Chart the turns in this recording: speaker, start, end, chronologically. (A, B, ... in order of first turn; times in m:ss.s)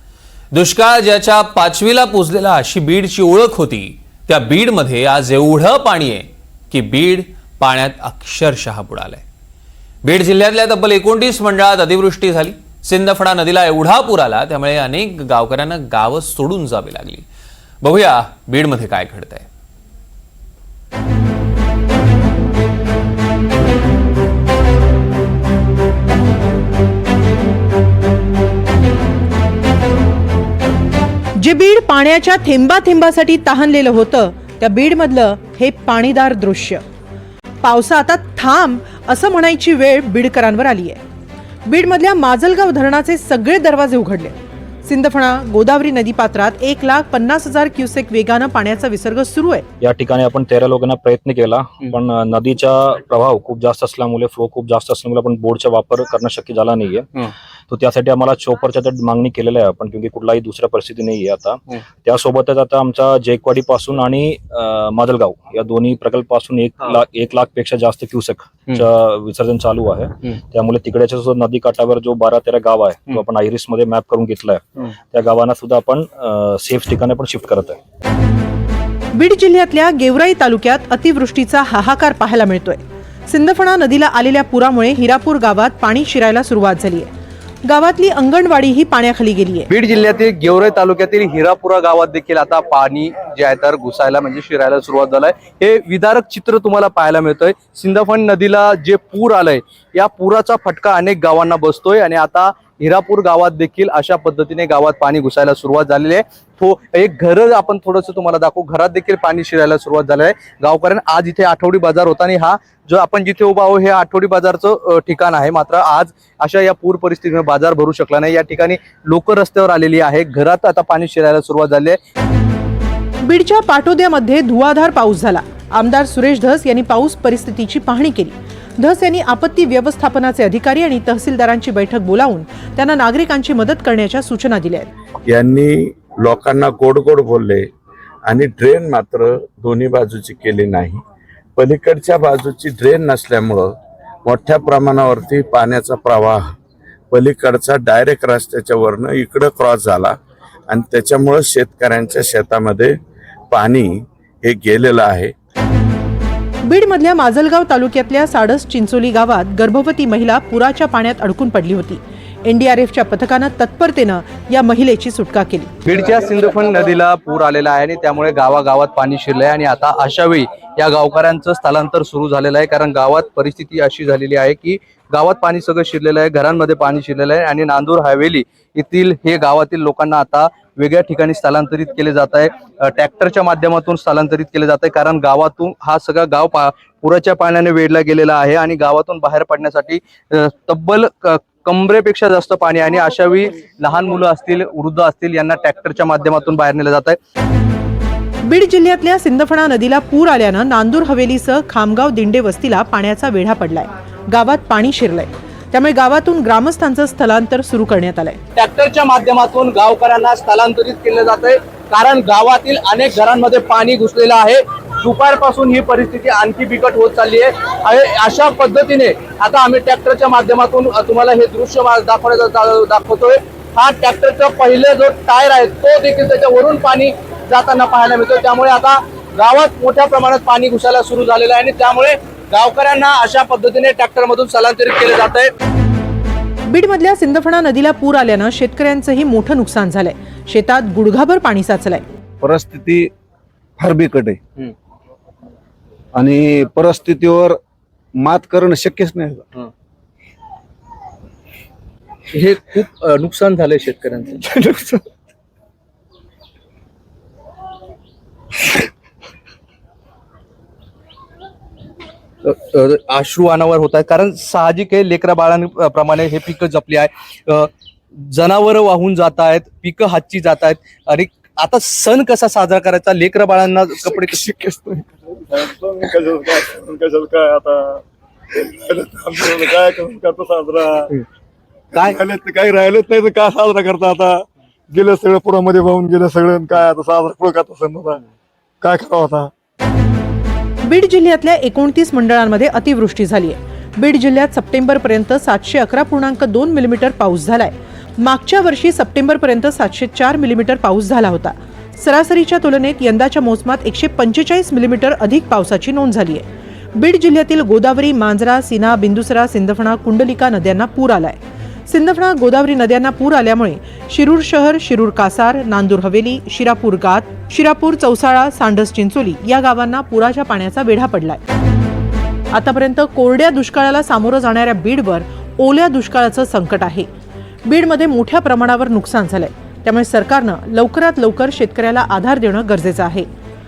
0:00.5-0:09.2 A
0:10.0-0:17.2 A
0:17.8-0:19.4 A
0:31.4-0:36.8 B
0:37.6-0:41.0 B
0:41.6-0:49.6 B
0:49.8-1:17.8 C
1:19.1-1:27.1 B
1:27.6-1:29.7 B
1:29.7-2:02.0 D
2:03.2-2:14.9 B
2:15.2-2:17.7 E
2:18.2-2:21.0 E
2:21.6-2:23.7 E
2:24.2-2:26.5 E
2:27.1-2:30.1 E
2:30.7-2:33.0 E
2:33.5-2:35.3 E
2:36.6-2:45.7 B
2:45.8-3:17.2 D
3:18.4-3:28.4 B
3:28.6-3:55.5 D
3:56.7-4:02.0 B
4:02.4-4:03.1 F
4:03.8-4:04.4 F
4:06.1-4:07.6 F
4:08.2-4:09.4 F
4:12.3-4:14.4 D
4:14.5-4:15.0 F
4:22.4-4:34.4 D
4:34.5-4:41.1 G
4:41.9-4:48.2 G
4:48.8-4:49.5 G
4:50.8-5:21.4 B
5:22.5-5:27.1 B
5:27.6-5:33.3 B